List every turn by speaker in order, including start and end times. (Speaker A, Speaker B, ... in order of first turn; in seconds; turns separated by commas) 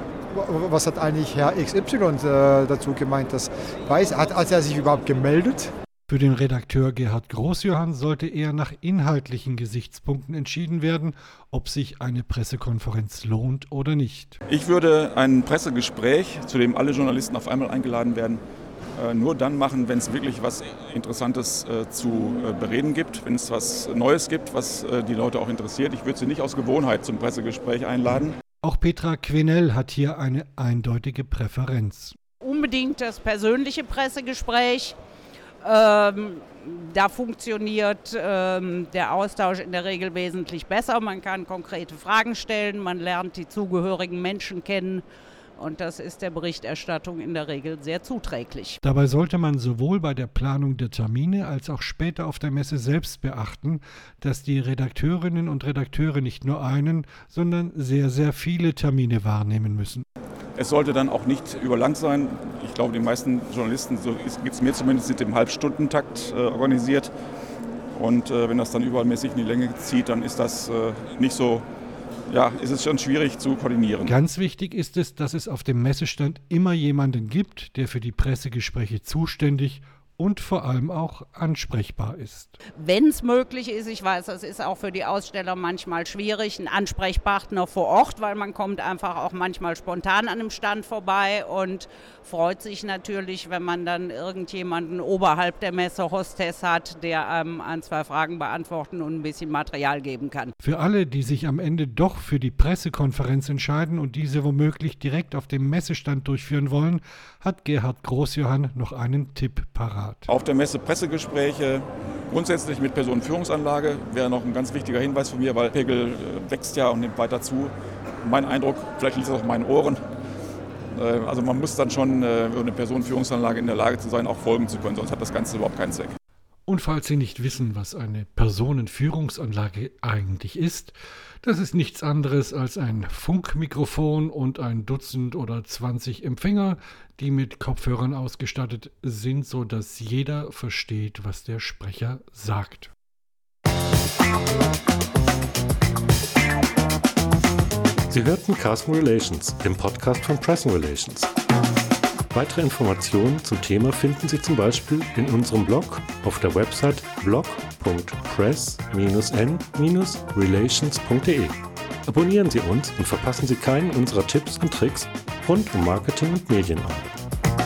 Speaker A: 0.3-5.7, Speaker B: 6.1-14.4, Speaker C: 14.5-18.4, Speaker C: 19.0-28.4, Speaker B: 28.6-32.1, Speaker D: 32.4-35.0, Speaker D: 35.6-45.0, Speaker D: 45.6-48.8, Speaker B: 48.8-60.0, Speaker C: 60.5-67.1, Speaker C: 67.9-71.6, Speaker C: 72.3-74.1, Speaker B: 74.0-82.6, Speaker D: 82.8-100.5, Speaker B: 100.6-110.3, Speaker C: 110.3-120.0, Speaker C: 120.9-126.1, Speaker B: 126.7-142.9, Speaker E: 148.1-151.3, Speaker E: 152.3-167.2